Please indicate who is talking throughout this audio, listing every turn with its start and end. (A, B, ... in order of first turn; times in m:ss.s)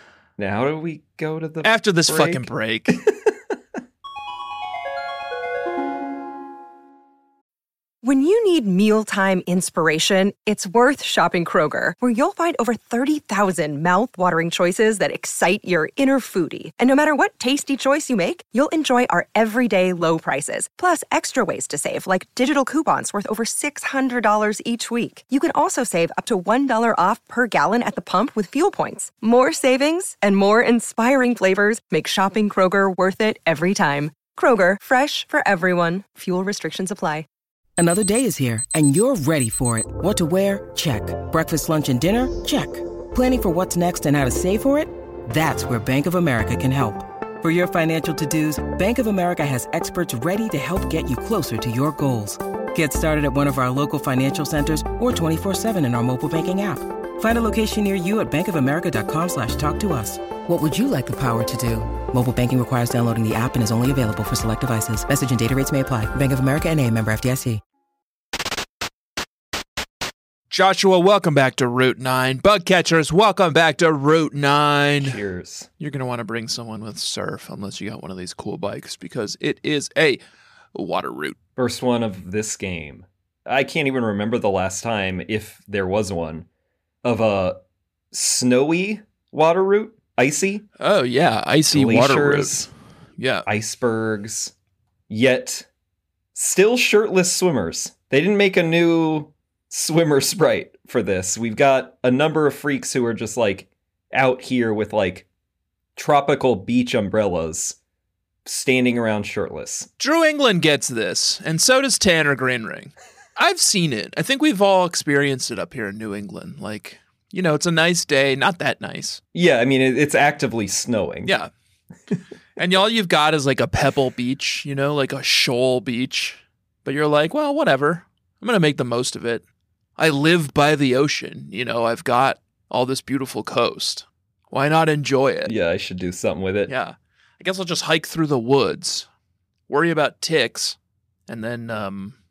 0:00.4-0:03.3 A
0:01.6-0:03.0 B
0:08.0-0:37.2 C
0:37.8-1:07.6 D
1:10.5-1:15.2 B
1:15.0-1:15.7 A
1:15.8-1:20.2 B
1:20.7-1:21.4 B
1:21.6-1:26.4 A
1:27.0-1:27.6 A
1:28.1-1:30.6 A
1:30.8-1:32.7 B
1:31.7-1:32.7 A
1:33.2-1:33.4 B
1:33.4-1:34.5 A
1:35.1-1:35.7 A
1:36.3-1:45.2 A
1:46.0-1:47.8 A
1:48.4-1:49.9 A
1:50.0-1:59.2 B
1:59.3-2:01.3 A
2:01.2-2:01.5 B
2:02.6-2:09.4 B
2:10.0-2:15.5 B
2:15.4-2:16.7 A
2:16.7-2:19.1 B
2:19.7-2:20.8 B
2:21.3-2:22.2 B